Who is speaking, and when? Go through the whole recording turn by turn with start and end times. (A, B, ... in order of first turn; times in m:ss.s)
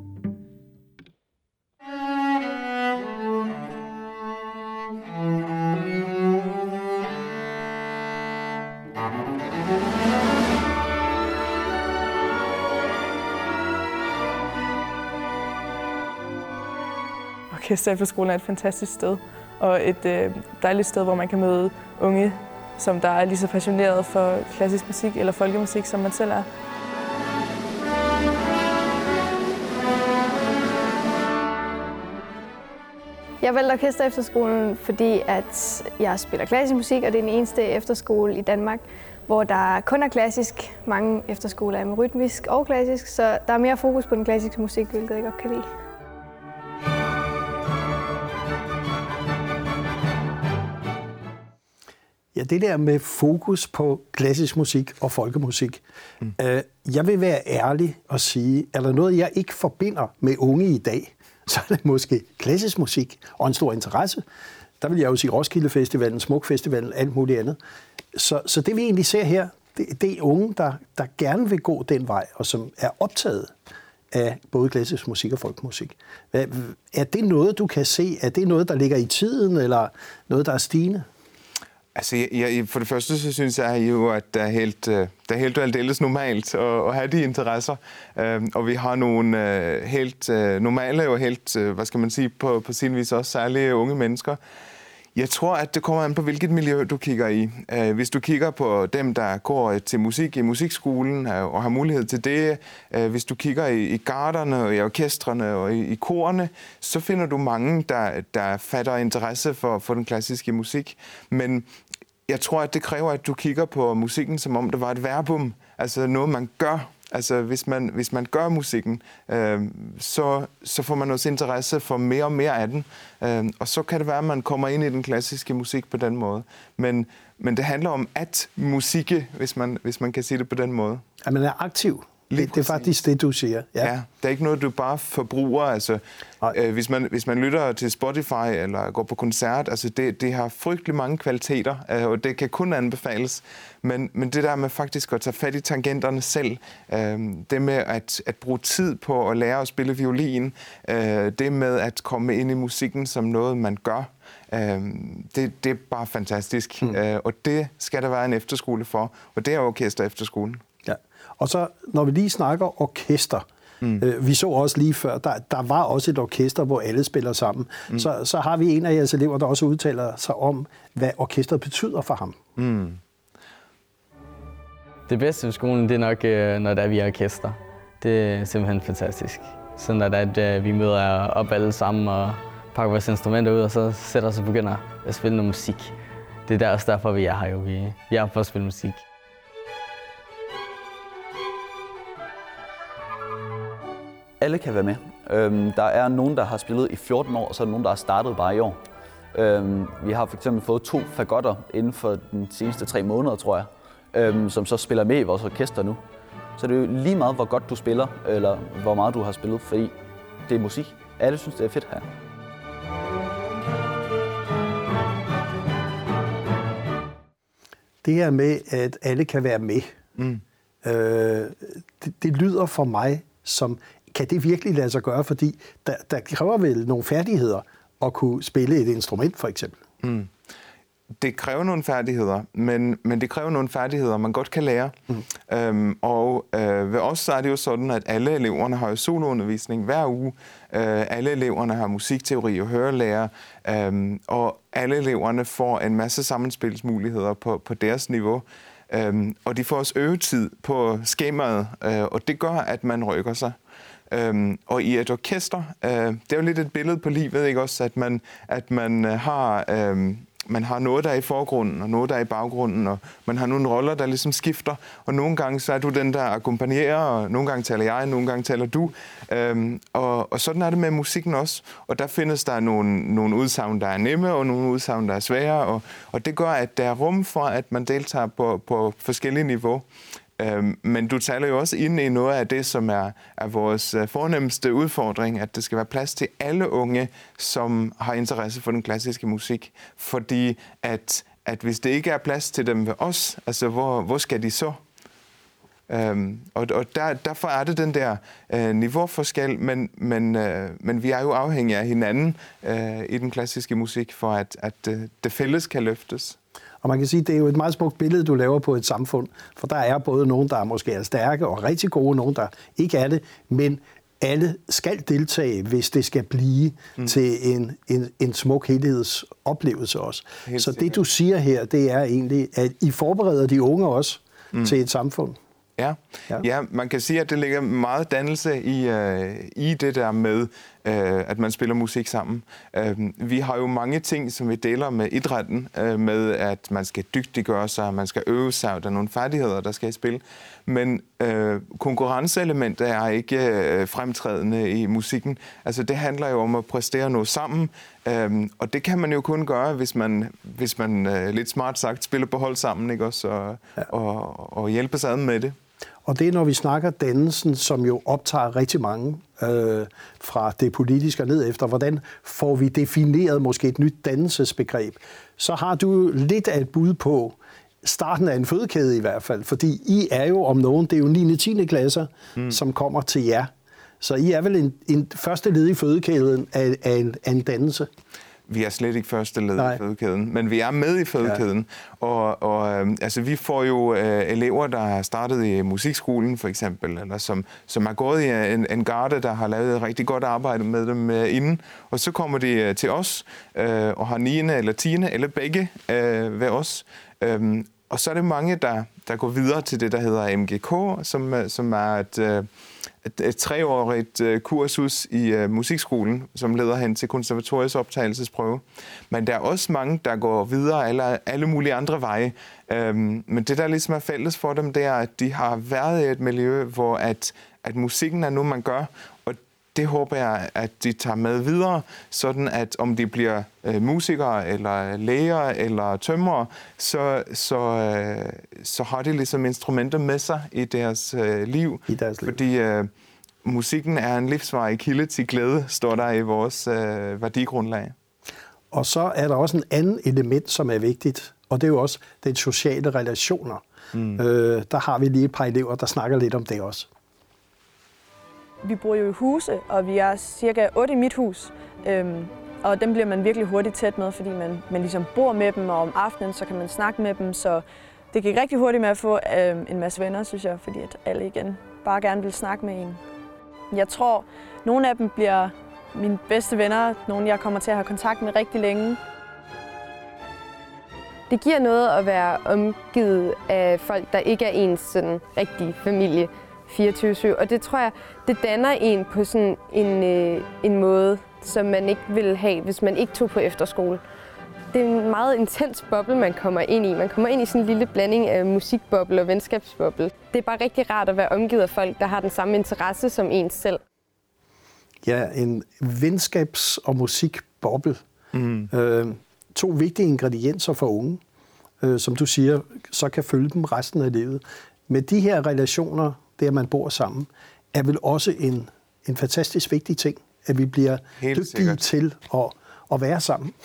0:17.5-0:26.5 A
0:33.4-0:45.7 B
0:52.3-0:55.8 C
0:56.4-1:04.2 C
1:04.8-1:07.6 C
1:08.1-1:13.5 C
1:14.1-1:21.1 C
1:22.0-1:34.4 D
1:35.2-1:51.7 D
1:52.3-2:11.0 D
2:11.2-2:13.9 C
2:12.3-2:12.9 D
2:13.8-2:40.6 D
2:40.9-2:43.4 C
2:44.0-2:52.4 C
2:52.6-2:53.0 D
2:55.1-3:05.9 E
3:06.5-3:09.0 E
3:14.4-3:18.8 F
3:19.3-3:26.0 F
3:26.6-3:30.0 F
3:30.5-3:32.1 F
3:38.0-3:39.9 C
3:40.2-3:40.4 D
3:40.8-3:49.8 C
3:50.0-3:50.3 D
3:51.2-4:13.6 D
4:14.1-4:39.9 D
4:40.4-4:54.8 D
4:55.9-5:06.4 D
5:06.8-5:25.4 C
5:20.5-5:21.0 D
5:25.8-5:55.6 D
5:56.1-6:13.5 C
6:14.0-6:17.9 C
6:18.5-6:42.5 D
6:43.0-7:12.9 D
7:11.9-7:12.4 C
7:13.4-7:18.0 D
7:18.7-7:23.6 C
7:23.9-7:24.2 D
7:24.2-7:26.9 C
7:28.6-7:43.0 A
7:43.7-7:49.0 A
7:51.3-8:04.0 G
8:04.7-8:13.8 G
8:15.0-8:18.0 C
8:18.3-8:18.7 D
8:18.7-8:21.2 C
8:21.8-8:33.6 C
8:31.2-8:31.8 D